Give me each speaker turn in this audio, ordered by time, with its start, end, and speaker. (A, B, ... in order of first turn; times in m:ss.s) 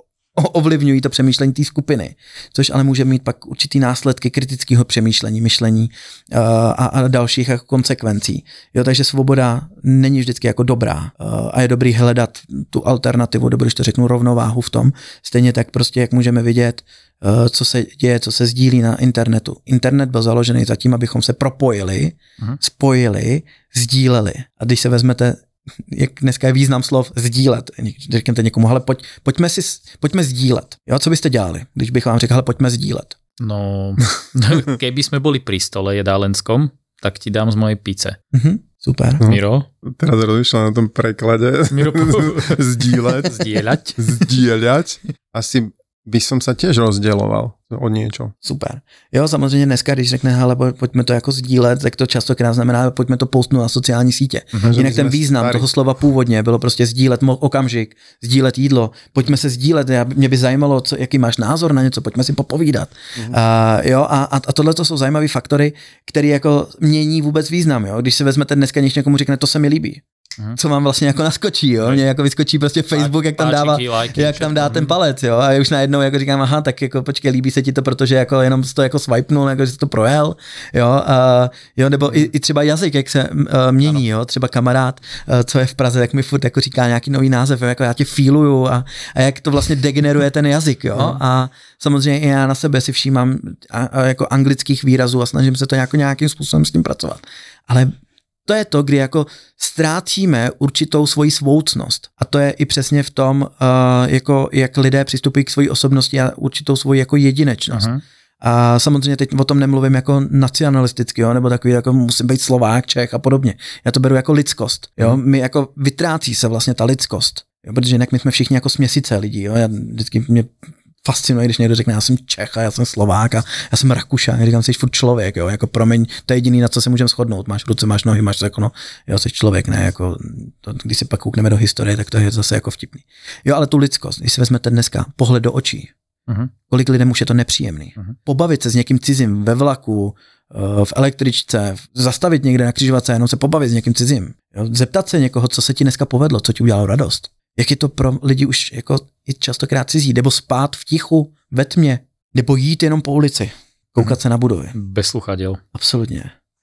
0:00.3-0:33.2 A
0:33.4-0:38.2 B
0:38.3-0:39.2 A
0:39.2-0:43.4 C
0:39.2-0:39.7 B
0:41.7-0:44.0 B
0:44.0-0:48.3 C
0:48.4-1:10.0 A
0:54.6-0:55.7 C
1:10.6-1:37.9 A
1:12.9-1:14.9 B
1:38.4-1:47.9 A
1:47.7-1:48.0 B
1:48.4-2:00.5 A
2:01.0-2:15.9 A
2:16.7-2:34.7 A
2:34.7-2:35.6 B
2:35.7-2:36.3 A